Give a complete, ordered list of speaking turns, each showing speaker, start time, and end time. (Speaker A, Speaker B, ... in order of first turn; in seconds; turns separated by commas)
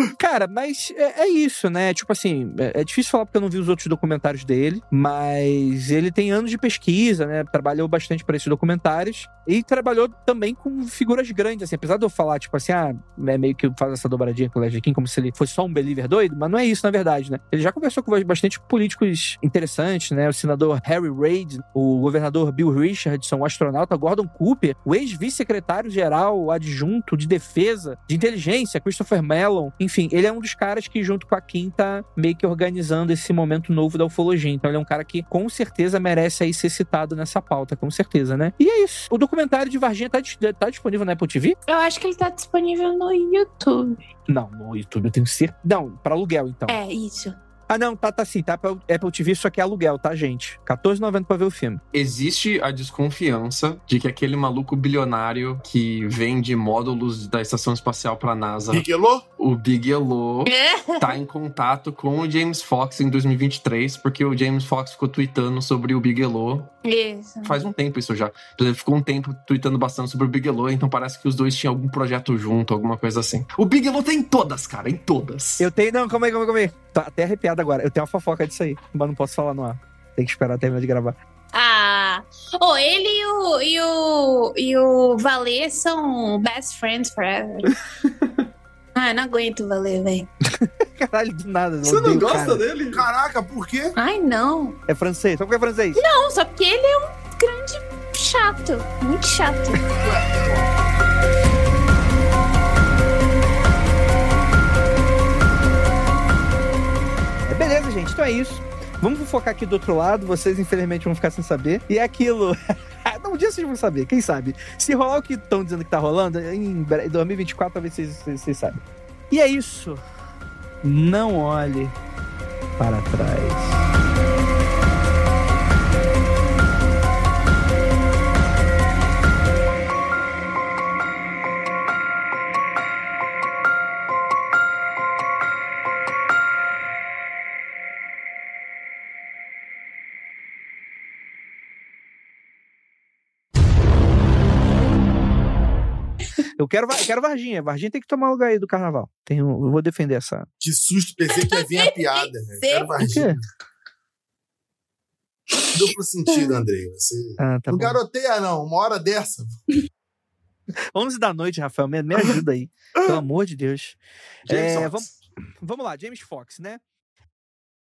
Speaker A: 0.2-41.6, Speaker B: 41.7-44.0, Speaker A: 44.3-46.8, Speaker B: 46.7-47.4, Speaker A: 47.7-51.8, Speaker C: 51.9-58.9, Speaker D: 58.7-59.2, Speaker C: 59.4-66.7, Speaker B: 60.5-61.1, Speaker B: 66.8-67.6, Speaker C: 67.4-75.7, Speaker A: 75.6-81.2, Speaker B: 81.5-87.8, Speaker C: 88.0-88.5, Speaker B: 89.0-90.3, Speaker A: 90.5-92.6, Speaker C: 91.8-93.0, Speaker D: 92.9-94.0, Speaker B: 94.0-94.8, Speaker A: 94.9-96.0, Speaker B: 96.0-99.9, Speaker D: 99.9-100.7, Speaker A: 107.5-120.0, Speaker A: 120.8-122.0, Speaker A: 122.8-123.8, Speaker A: 146.6-150.5, Speaker D: 150.6-153.4, Speaker B: 151.3-152.9, Speaker A: 153.0-153.4, Speaker D: 155.7-159.6, Speaker B: 156.3-156.6, Speaker A: 157.4-158.0, Speaker A: 160.9-165.1, Speaker D: 164.5-165.1, Speaker A: 165.6-166.8